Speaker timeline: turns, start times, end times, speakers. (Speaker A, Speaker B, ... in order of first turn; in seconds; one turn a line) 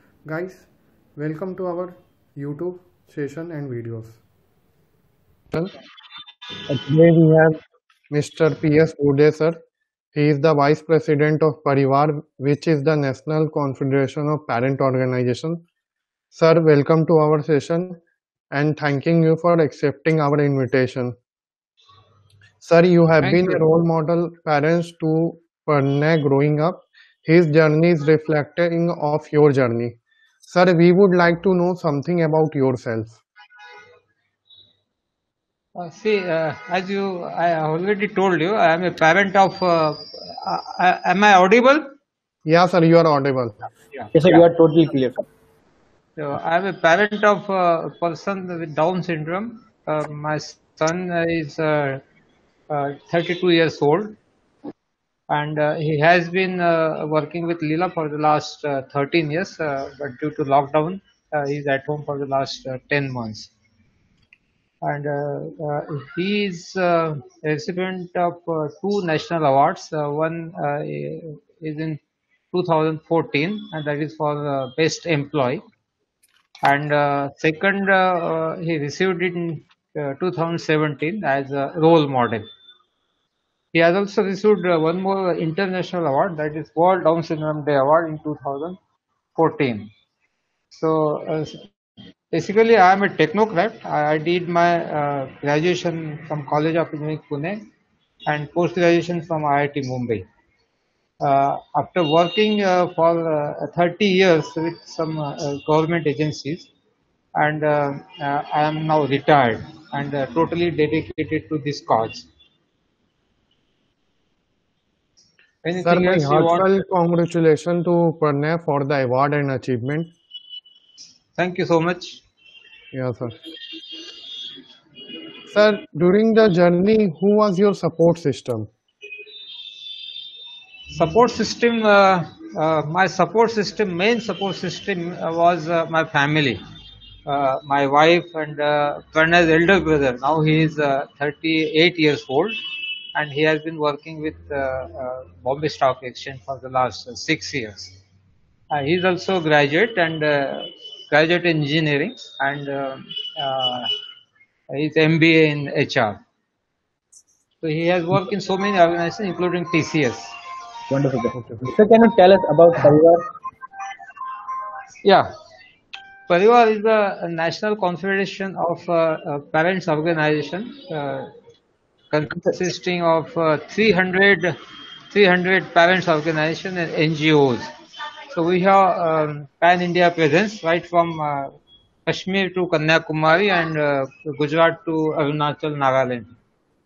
Speaker A: 0.2-4.2
Speaker A: 6.7-7.6
Speaker A: 8.1-9.6
Speaker A: 10.1-15.6
Speaker A: 16.3-18.0
Speaker A: 18.5-21.1
Speaker A: 22.6-33.2
Speaker B: 23.2-23.6
Speaker C: 35.8-41.9
Speaker A: 42.5-43.6
Speaker C: 43.9-44.4
Speaker B: 44.1-45.2
Speaker C: 46.2-52.0
Speaker C: 52.7-54.2
Speaker C: 55.3-63.5
Speaker C: 64.8-72.0
Speaker C: 72.5-75.6
Speaker C: 76.6-82.5
Speaker C: 83.7-88.8
Speaker C: 89.3-89.9
Speaker C: 90.7-91.6
Speaker C: 92.3-97.6
Speaker C: 98.3-100.2
Speaker C: 101.2-106.7
Speaker C: 107.4-112.2
Speaker C: 115.6-116.7
Speaker A: 115.8-120.1
Speaker C: 121.4-122.2
Speaker A: 122.9-123.3
Speaker A: 125.5-128.7
Speaker C: 130.9-136.6
Speaker C: 137.3-142.6
Speaker C: 143.1-147.9
Speaker C: 148.7-153.9
Speaker C: 154.7-156.2
Speaker C: 157.6-160.3
Speaker B: 160.9-163.2
Speaker C: 166.3-171.3
Speaker C: 172.1-174.5
Speaker C: 175.1-177.7
Speaker C: 178.3-181.5
Speaker C: 182.1-186.3